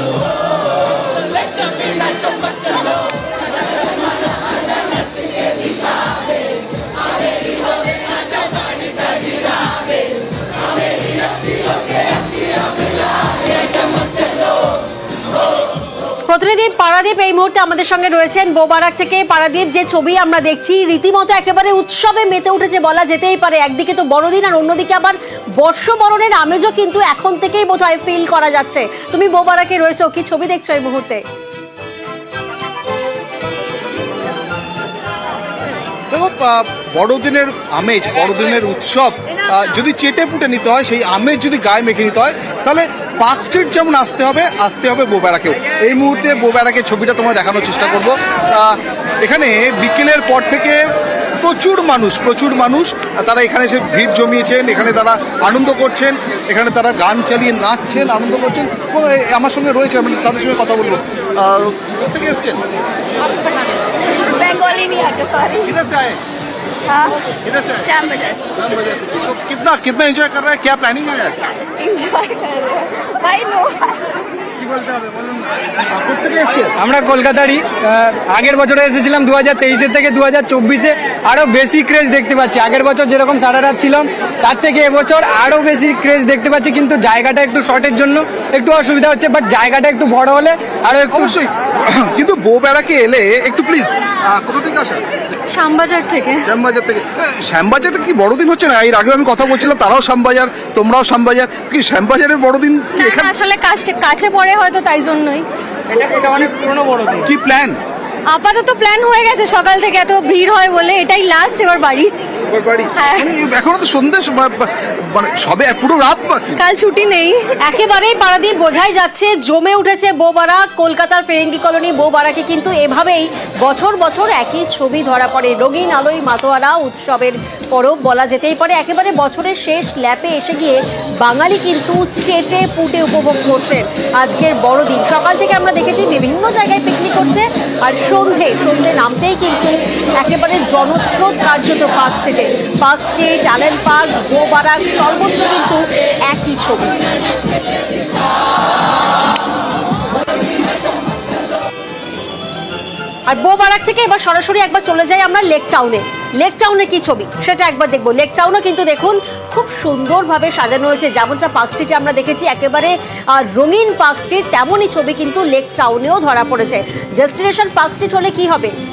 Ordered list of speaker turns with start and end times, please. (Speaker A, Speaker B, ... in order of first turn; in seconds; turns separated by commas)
Speaker A: 16.3-31.2, Speaker B: 36.1-50.8, Speaker B: 51.4-62.6, Speaker C: 64.3-65.8, Speaker B: 65.6-66.2, Speaker C: 66.9-67.2, Speaker B: 67.5-67.9, Speaker C: 67.8-68.5, Speaker B: 68.5-71.4, Speaker C: 71.8-74.1, Speaker B: 74.6-76.7, Speaker D: 76.8-91.3, Speaker B: 91.1-95.0, Speaker E: 95.5-96.4, Speaker B: 96.4-103.3, Speaker E: 103.0-105.5, Speaker B: 107.2-107.8, Speaker E: 108.3-112.1, Speaker B: 112.5-116.5, Speaker E: 113.0-113.3, Speaker E: 116.5-117.4, Speaker A: 117.6-146.9, Speaker A: 153.3-168.7